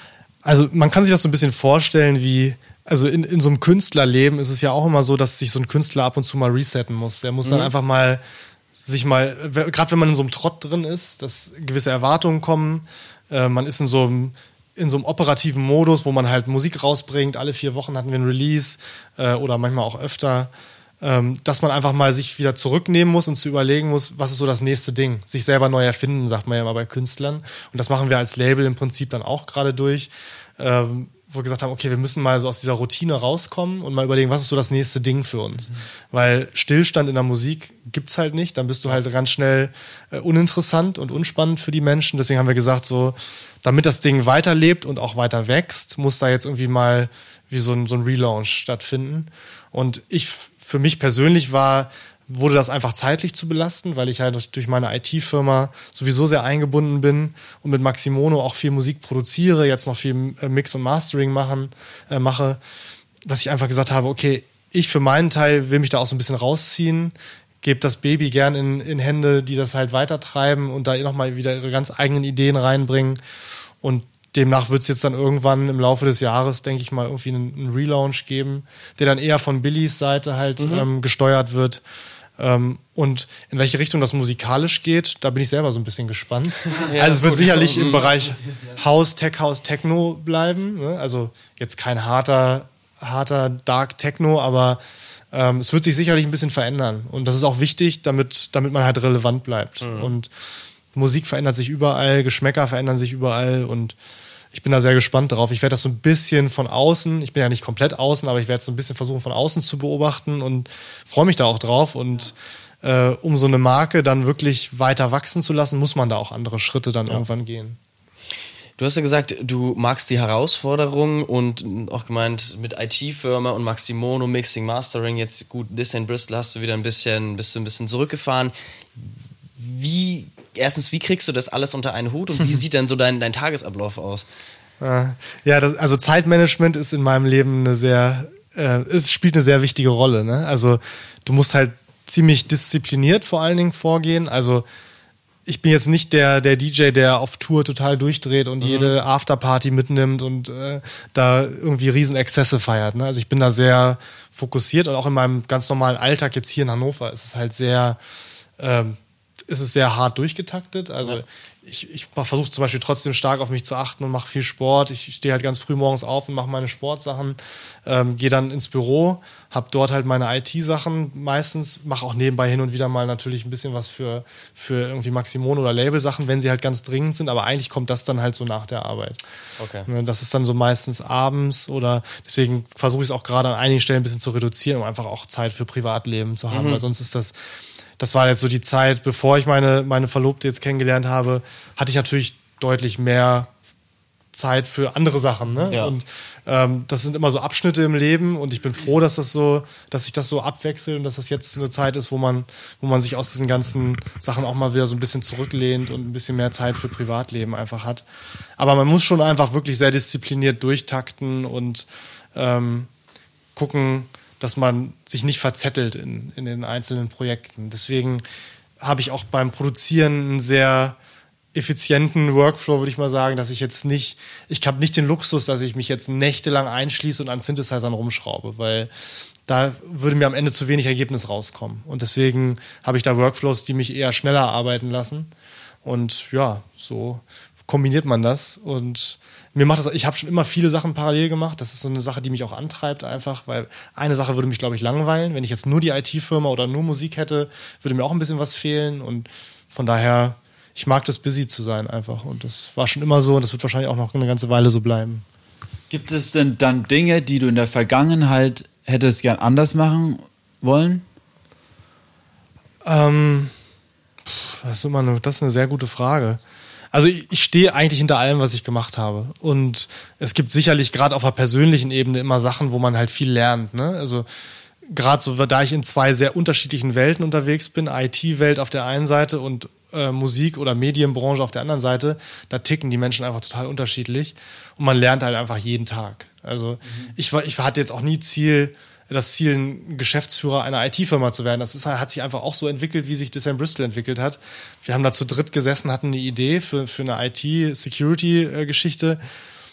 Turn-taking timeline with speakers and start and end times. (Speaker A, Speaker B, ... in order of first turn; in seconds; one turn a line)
Speaker A: 0.4-8.2
Speaker B: 7.4-7.7
Speaker A: 8.8-62.6
Speaker A: 63.2-73.2
Speaker A: 73.8-81.8
Speaker B: 80.6-80.9
Speaker A: 82.4-104.0
Speaker B: 86.7-88.1
Speaker B: 99.8-100.1
Speaker A: 104.5-117.8
Speaker B: 118.8-129.1
Speaker B: 129.6-134.3
Speaker A: 134.8-144.6
Speaker A: 145.5-158.0
Speaker B: 148.6-148.9
Speaker A: 158.6-179.2
Speaker B: 179.6-179.9
Speaker A: 179.9-187.3
Speaker B: 186.5-186.8
Speaker A: 188.0-193.5
Speaker A: 194.3-208.1
Speaker B: 195.7-195.9
Speaker A: 208.6-212.9
Speaker A: 213.6-218.2
Speaker A: 218.8-221.0
Speaker A: 221.5-228.9
Speaker A: 229.5-235.3
Speaker A: 235.8-255.2
Speaker C: 255.9-261.0
Speaker A: 262.8-263.5
Speaker A: 264.2-266.4
Speaker A: 266.9-274.3
Speaker A: 274.9-299.2
Speaker C: 286.9-287.1